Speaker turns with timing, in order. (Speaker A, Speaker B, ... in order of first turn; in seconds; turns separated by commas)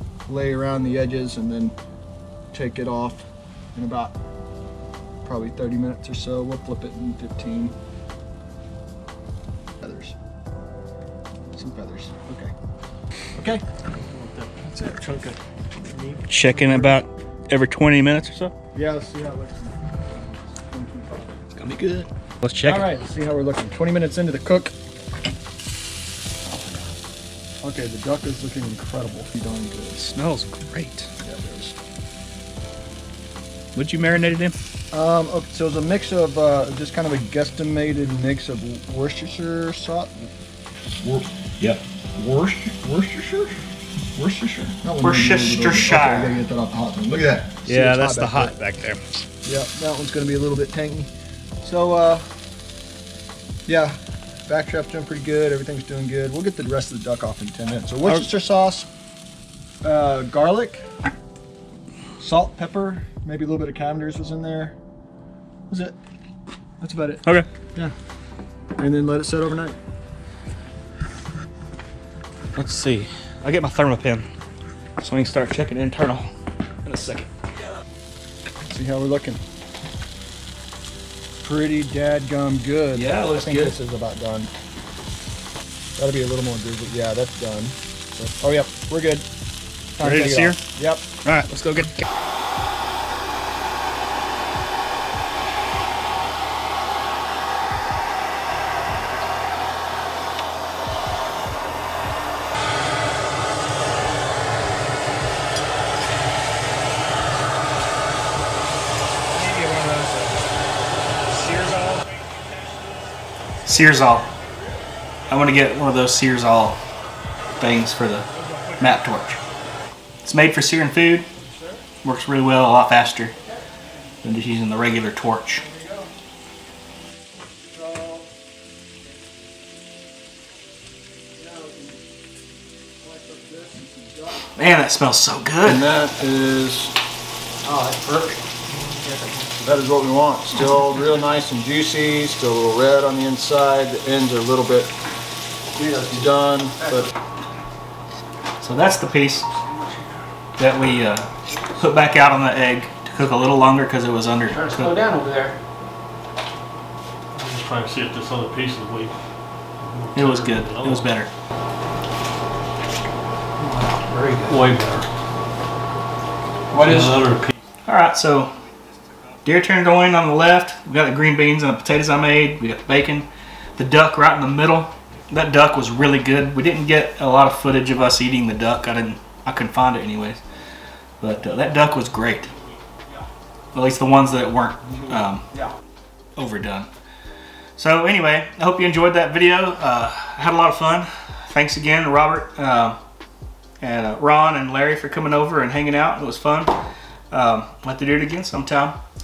Speaker A: 0.3-1.8, Speaker A: 2.5-4.1, Speaker A: 5.2-7.7, Speaker A: 9.8-10.2, Speaker A: 11.5-12.5, Speaker A: 13.3-13.6, Speaker B: 13.9-14.6, Speaker C: 16.3-18.5, Speaker A: 16.5-17.0, Speaker A: 18.7-21.4, Speaker C: 21.5-22.9, Speaker A: 22.6-24.7, Speaker A: 27.6-30.1, Speaker C: 30.1-31.1, Speaker A: 31.2-31.8, Speaker C: 33.8-34.6, Speaker A: 34.9-40.3, Speaker A: 40.9-41.4, Speaker A: 42.1-43.6, Speaker A: 44.1-48.5, Speaker C: 45.0-46.4, Speaker C: 47.7-49.0, Speaker A: 49.4-51.1, Speaker A: 51.6-52.3, Speaker A: 53.7-58.9, Speaker A: 59.8-60.8, Speaker A: 62.2-64.8, Speaker A: 65.7-66.0, Speaker A: 66.8-67.9, Speaker A: 68.8-69.8, Speaker C: 72.5-74.3, Speaker C: 75.0-76.3, Speaker C: 76.8-77.3, Speaker A: 78.7-79.4, Speaker A: 81.4-84.5, Speaker C: 82.9-83.8, Speaker A: 86.0-89.3, Speaker A: 90.0-91.0, Speaker C: 90.0-90.6, Speaker C: 91.2-92.1, Speaker A: 109.3-110.4, Speaker A: 111.3-113.0, Speaker C: 113.7-114.3, Speaker C: 115.3-116.8, Speaker C: 117.6-118.3, Speaker A: 118.3-119.1, Speaker C: 118.8-119.4, Speaker C: 120.2-121.3, Speaker A: 121.4-121.9, Speaker C: 122.0-123.3, Speaker C: 124.2-125.6, Speaker A: 125.6-126.1, Speaker A: 127.6-128.3, Speaker A: 131.3-132.0, Speaker A: 133.0-134.5, Speaker C: 134.5-135.9, Speaker A: 135.6-137.0, Speaker D: 137.7-139.5, Speaker A: 139.6-144.9, Speaker D: 145.7-147.1, Speaker A: 146.1-147.1, Speaker C: 148.6-149.5, Speaker D: 149.6-150.1, Speaker C: 150.6-155.0, Speaker D: 154.5-155.6, Speaker B: 157.3-159.1, Speaker B: 159.8-161.1, Speaker C: 160.2-161.3, Speaker B: 164.5-165.1, Speaker B: 166.7-167.5, Speaker A: 166.7-167.1, Speaker C: 167.8-168.7, Speaker C: 169.4-180.4, Speaker C: 181.2-182.5, Speaker C: 183.7-185.5, Speaker C: 186.4-186.9, Speaker C: 187.8-193.0, Speaker C: 193.8-196.8, Speaker C: 197.3-199.0